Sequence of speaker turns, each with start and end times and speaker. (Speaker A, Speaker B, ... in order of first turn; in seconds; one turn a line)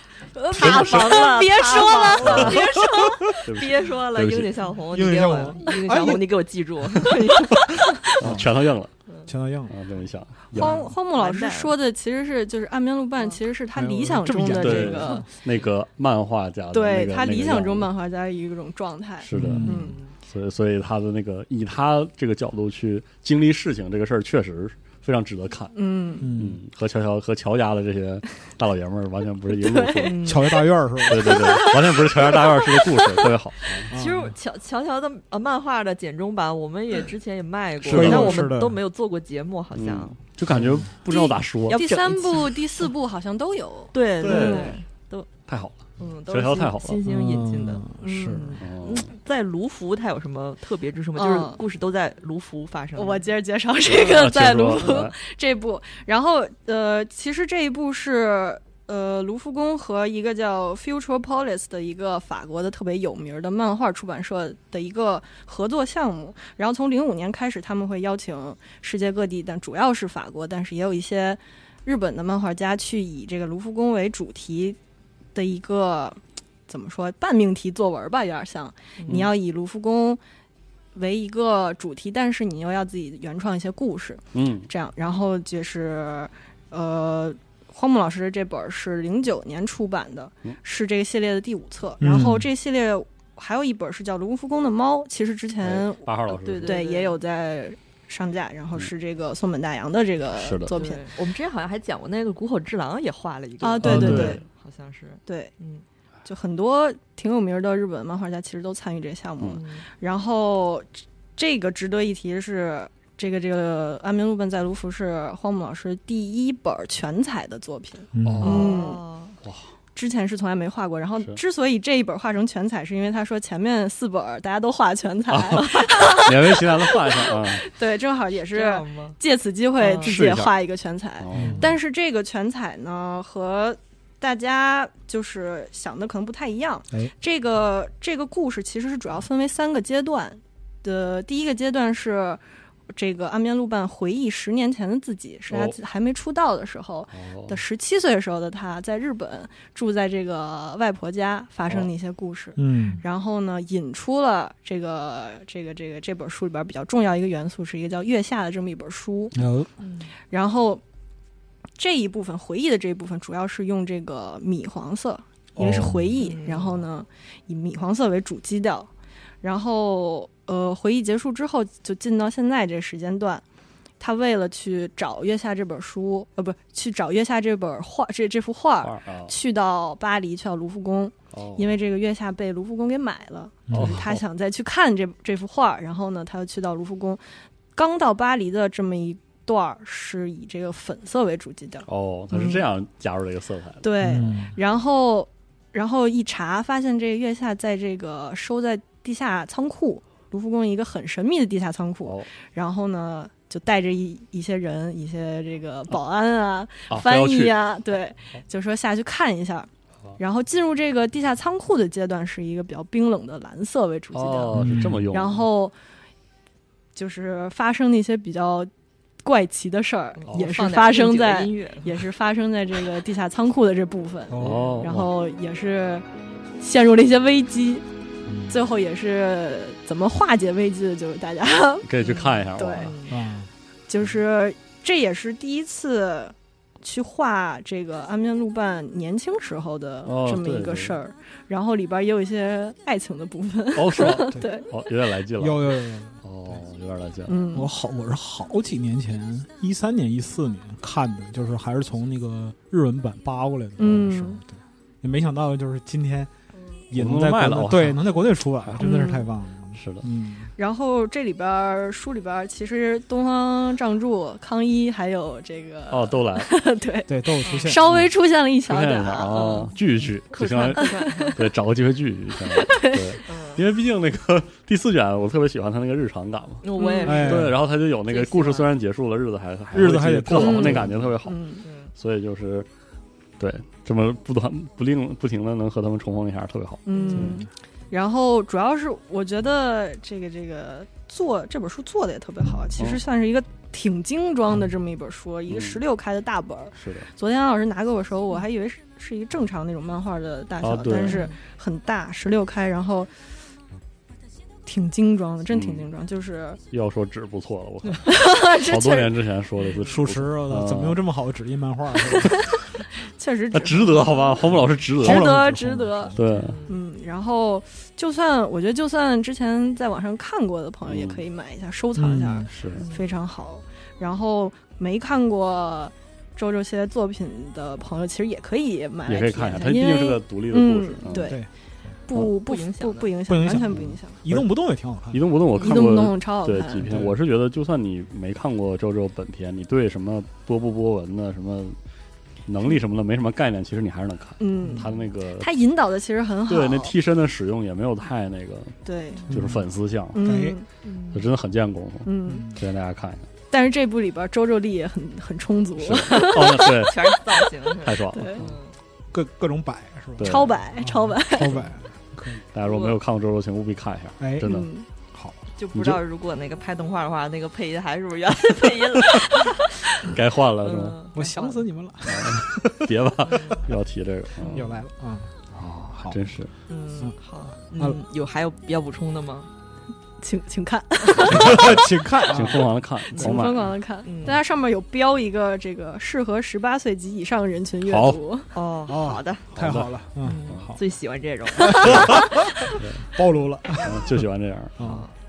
Speaker A: 0.3-3.3
Speaker B: 0.5-1.3
Speaker C: 0.5-7.8
Speaker B: 2.2-2.6
Speaker B: 3.4-4.5
Speaker D: 4.9-6.3
Speaker A: 7.3-7.5
Speaker B: 8.1-8.9
Speaker D: 8.2-8.5
Speaker D: 9.2-9.8
Speaker B: 9.7-10.9
Speaker A: 10.5-15.3
Speaker C: 11.0-11.7
Speaker D: 13.7-15.3
Speaker B: 14.5-17.9
Speaker A: 16.7-19.9
Speaker B: 19.2-30.2
Speaker D: 19.3-19.9
Speaker C: 19.6-20.1
Speaker A: 25.7-26.3
Speaker D: 26.2-26.6
Speaker A: 29.5-30.3
Speaker C: 30.0-30.4
Speaker D: 30.2-31.4
Speaker B: 31.1-33.9
Speaker A: 31.1-33.3
Speaker D: 33.9-34.3
Speaker C: 33.9-40.2
Speaker D: 37.8-38.8
Speaker B: 37.8-38.3
Speaker B: 39.7-41.8
Speaker D: 40.5-40.9
Speaker A: 41.1-44.8
Speaker C: 41.7-42.5
Speaker C: 43.9-45.3
Speaker B: 44.2-44.8
Speaker B: 45.5-47.0
Speaker C: 46.0-53.2
Speaker D: 47.0-48.5
Speaker A: 48.0-48.5
Speaker B: 48.6-49.1
Speaker A: 51.2-51.6
Speaker A: 53.0-74.8
Speaker B: 53.8-55.1
Speaker A: 75.3-80.2
Speaker C: 79.0-79.3
Speaker A: 80.9-101.1
Speaker B: 84.3-84.7
Speaker D: 92.0-92.5
Speaker B: 95.6-96.8
Speaker C: 96.3-97.2
Speaker B: 100.3-100.7
Speaker C: 100.7-105.8
Speaker A: 103.6-104.4
Speaker B: 103.8-104.4
Speaker D: 103.8-104.3
Speaker A: 105.3-105.5
Speaker A: 106.2-119.0
Speaker C: 109.5-109.8
Speaker D: 118.1-118.6
Speaker B: 118.2-118.9
Speaker C: 118.4-119.4
Speaker A: 119.9-142.4
Speaker B: 125.3-127.7
Speaker C: 128.5-129.2
Speaker C: 129.8-130.1
Speaker B: 130.0-130.5
Speaker B: 131.2-131.8
Speaker D: 131.3-131.7
Speaker A: 142.9-159.4
Speaker B: 145.5-145.8
Speaker B: 147.1-147.6
Speaker D: 152.6-153.0
Speaker D: 159.3-159.7
Speaker C: 159.8-160.1
Speaker A: 160.3-160.8
Speaker A: 161.8-168.9
Speaker D: 165.6-166.1
Speaker B: 165.6-165.9
Speaker C: 166.2-166.8
Speaker A: 169.4-173.4
Speaker A: 174.0-187.2
Speaker B: 178.8-179.3
Speaker B: 181.3-181.8
Speaker D: 183.7-184.0
Speaker B: 183.7-184.2
Speaker A: 187.7-192.6
Speaker B: 191.9-193.8
Speaker A: 193.8-215.7
Speaker D: 194.0-194.5
Speaker B: 206.9-207.6
Speaker B: 214.1-215.5
Speaker D: 214.5-215.0
Speaker A: 216.9-218.7
Speaker A: 219.2-226.1
Speaker C: 220.2-222.0
Speaker D: 224.3-224.7
Speaker B: 224.4-225.1
Speaker A: 226.6-227.8
Speaker D: 228.3-228.6
Speaker A: 228.5-231.9
Speaker B: 231.8-232.9
Speaker C: 232.0-233.2
Speaker A: 232.5-232.9
Speaker D: 233.1-233.5
Speaker A: 233.9-244.7
Speaker B: 240.0-240.9
Speaker B: 243.7-247.4
Speaker D: 245.4-246.2
Speaker A: 247.3-247.7
Speaker D: 247.5-256.3
Speaker A: 253.8-254.4
Speaker D: 256.9-260.5
Speaker B: 256.9-258.0
Speaker B: 258.6-258.9
Speaker A: 258.8-259.3
Speaker B: 259.7-260.1
Speaker A: 260.6-269.5
Speaker B: 265.9-266.5
Speaker D: 267.1-268.1
Speaker C: 267.4-267.7
Speaker B: 268.6-282.7
Speaker C: 269.3-269.7
Speaker C: 270.3-271.4
Speaker A: 270.7-271.4
Speaker A: 272.4-273.2
Speaker C: 273.2-273.6
Speaker C: 276.6-278.7
Speaker A: 276.8-277.3
Speaker D: 277.0-277.6
Speaker D: 279.7-281.0
Speaker A: 280.4-281.6
Speaker C: 281.6-281.9
Speaker B: 283.4-287.4
Speaker A: 286.9-303.1
Speaker C: 286.9-287.4
Speaker B: 295.5-295.8
Speaker B: 296.8-297.1
Speaker B: 300.6-301.3
Speaker C: 301.1-301.4
Speaker A: 304.6-306.6
Speaker B: 305.5-305.9
Speaker B: 306.7-311.0
Speaker A: 308.0-309.1
Speaker C: 309.6-309.9
Speaker D: 309.9-312.4
Speaker A: 312.1-316.1
Speaker B: 313.5-315.4
Speaker D: 315.0-316.3
Speaker B: 316.1-316.6
Speaker C: 316.3-316.8
Speaker A: 316.7-331.4
Speaker B: 320.9-321.2
Speaker D: 321.9-322.5
Speaker B: 322.5-322.8
Speaker C: 322.8-323.1
Speaker B: 329.1-331.3
Speaker D: 331.1-331.5
Speaker A: 332.1-334.2
Speaker C: 332.2-333.1
Speaker D: 333.3-335.2
Speaker B: 335.1-341.8
Speaker A: 335.6-336.9
Speaker D: 336.9-337.1
Speaker B: 342.5-345.5
Speaker A: 344.4-346.9
Speaker B: 346.5-350.2
Speaker A: 348.8-349.3
Speaker D: 349.3-349.6
Speaker A: 350.1-350.7
Speaker D: 350.2-350.6
Speaker C: 350.8-351.2
Speaker B: 351.1-353.3
Speaker A: 352.0-352.5
Speaker D: 352.3-352.6
Speaker A: 353.5-357.5
Speaker B: 355.8-357.0
Speaker C: 356.6-358.7
Speaker B: 357.8-358.5
Speaker A: 358.1-358.4
Speaker D: 359.1-362.4
Speaker B: 360.2-360.6
Speaker A: 360.2-361.6
Speaker B: 362.5-364.7
Speaker C: 362.6-363.0
Speaker D: 364.2-364.6
Speaker A: 364.4-364.9
Speaker D: 365.1-365.9
Speaker C: 365.6-371.6
Speaker B: 370.0-371.0
Speaker D: 371.1-372.9
Speaker B: 372.1-374.7
Speaker C: 373.2-373.7
Speaker C: 374.4-374.7
Speaker D: 374.5-375.3
Speaker B: 375.5-376.5
Speaker C: 376.7-379.5
Speaker A: 380.2-381.7
Speaker D: 381.2-382.7
Speaker B: 381.3-383.8
Speaker A: 383.1-388.5
Speaker C: 384.0-384.4
Speaker B: 387.8-388.2
Speaker C: 388.5-389.4
Speaker D: 388.9-390.8
Speaker B: 389.5-389.9
Speaker C: 390.2-392.3
Speaker D: 391.6-394.2
Speaker B: 391.8-392.2
Speaker B: 392.8-393.1
Speaker B: 393.7-394.8
Speaker D: 394.8-395.0
Speaker C: 394.8-395.1